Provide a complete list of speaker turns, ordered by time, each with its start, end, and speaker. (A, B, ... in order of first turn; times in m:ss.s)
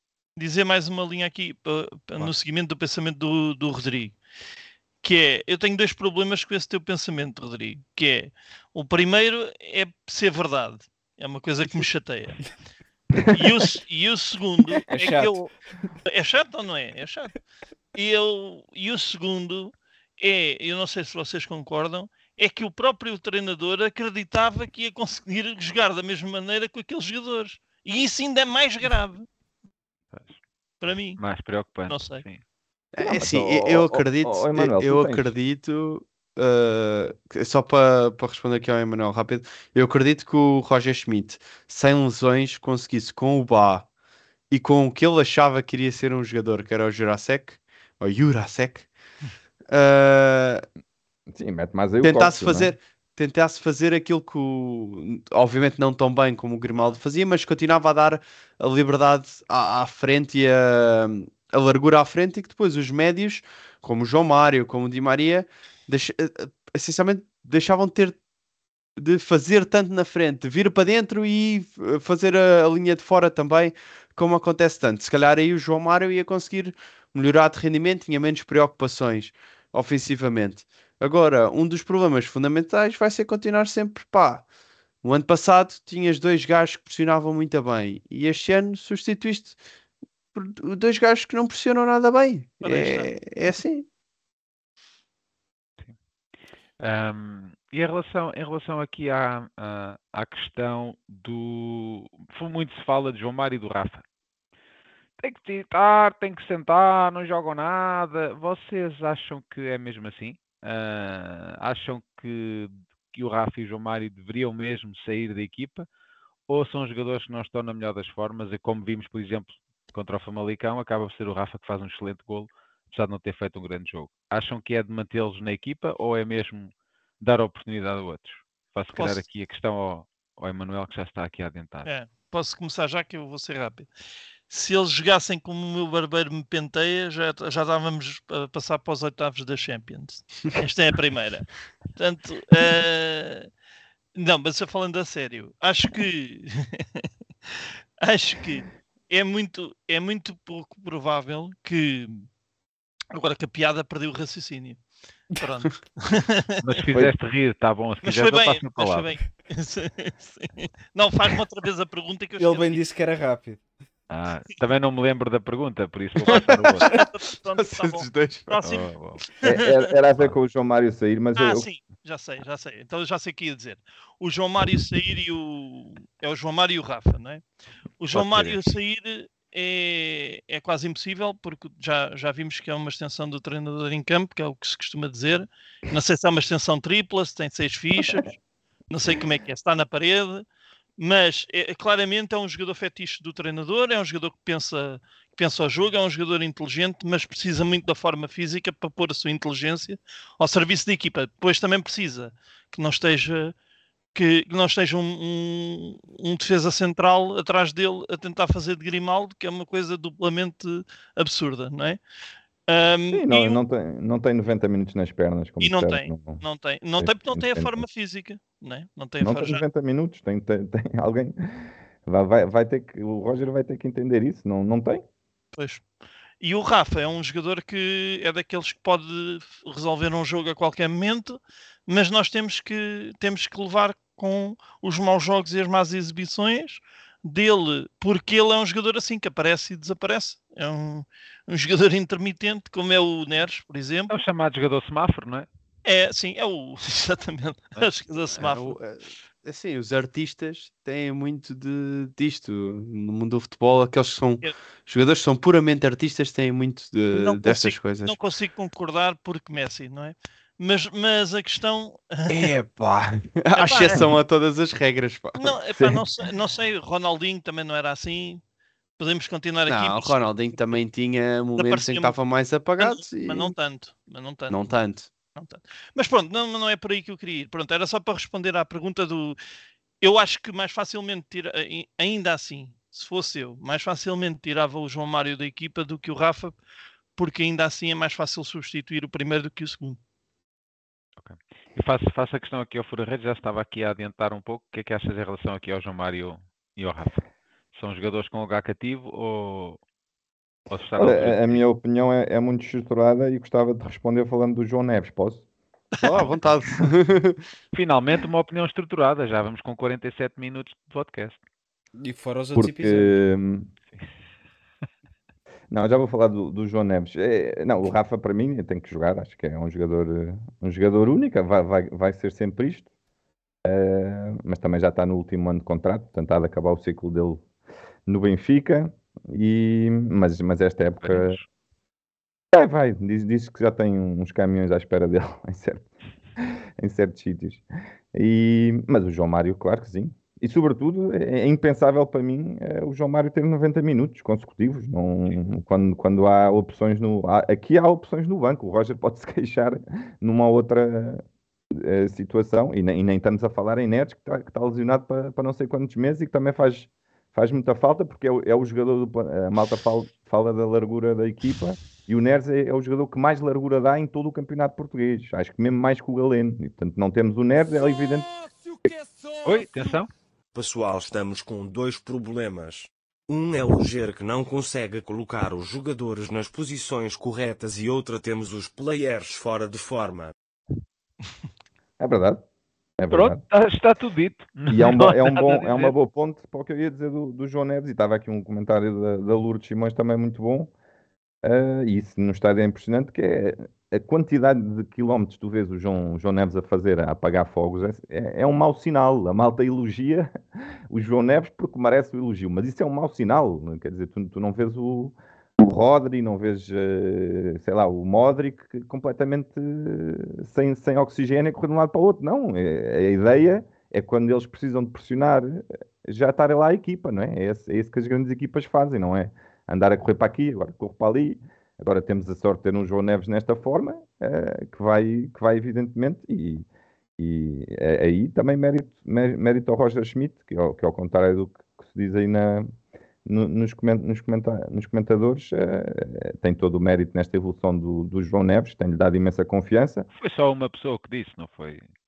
0:00.4-0:04.2 A
0:05.0-0:12.4 A
0:13.3-0:15.5 A
0:14.9-0:15.5 B
0:16.0-0:17.3 A
0:17.9-0:29.3 A
0:30.1-0:30.4 C
0:30.8-0:31.2 A
0:31.2-0:32.4 C
0:31.9-0:32.2 A
0:32.9-0:43.9 D
0:33.0-0:35.3 E
0:44.5-0:48.9 D
0:49.7-0:50.6 D
0:51.3-0:52.8 E
0:52.0-1:08.2 D
1:09.0-1:24.5 D
1:25.0-1:29.6 D
1:30.3-1:33.9 D
1:32.6-1:33.1 A
1:36.8-1:44.0 C
1:45.2-1:55.9 C
1:56.5-2:11.9 C
2:08.9-2:09.2 A
2:11.8-2:13.9 A
2:14.5-2:23.5 A
2:24.2-2:32.3 A
2:33.1-2:34.8 A
2:35.4-2:36.6 A
2:36.6-2:39.1 C
2:38.0-2:42.8 A
2:42.4-2:43.6 B
2:44.1-2:46.9 C
2:46.3-2:49.9 A
2:46.3-2:48.6 D
2:48.6-2:49.3 C
2:49.4-2:51.7 E
2:51.4-2:57.4 A
2:58.0-3:08.4 A
2:58.1-2:58.6 C
3:08.9-3:10.5 A
3:11.0-3:23.5 A
3:24.2-3:32.0 A
3:32.7-3:33.6 A
3:33.1-3:36.4 E
3:35.6-3:39.6 A
3:37.0-3:37.8 E
3:39.2-3:41.4 E
3:42.1-3:45.0 E
3:45.6-3:45.9 A
3:46.4-4:04.1 A
4:04.1-4:05.5 C
4:05.9-4:08.8 A
4:08.4-4:18.2 D
4:17.1-4:22.5 A
4:22.3-4:25.6 D
4:23.6-4:24.2 A
4:25.4-4:28.4 A
4:25.8-4:26.0 E
4:29.0-4:30.2 A
4:29.7-4:33.5 D
4:31.6-4:32.2 A
4:32.8-4:34.6 A
4:34.5-4:35.1 D
4:35.4-4:39.4 A
4:40.0-4:46.6 A
4:47.2-4:50.0 A
4:51.2-4:59.8 C
5:00.7-5:01.6 C
5:01.0-5:05.4 E
5:06.0-5:06.4 A
5:06.0-5:07.4 D
5:07.7-5:11.4 C
5:12.0-5:13.2 B
5:12.6-5:13.7 E
5:15.7-5:22.9 E
5:23.6-5:27.4 E
5:28.1-5:31.4 E
5:31.0-5:31.4 C
5:32.5-5:35.9 E
5:36.4-5:37.6 E
5:38.1-5:51.2 E
5:51.8-6:08.3 E
6:09.4-6:10.1 C
6:10.6-6:20.3 F
6:22.0-6:22.4 E
6:23.0-6:23.4 E
6:23.1-6:26.0 C
6:24.7-6:30.7 E
6:31.4-6:40.3 E
6:40.9-7:06.7 E
7:07.2-7:12.7 E
7:13.2-7:20.1 E
7:20.2-7:21.9 C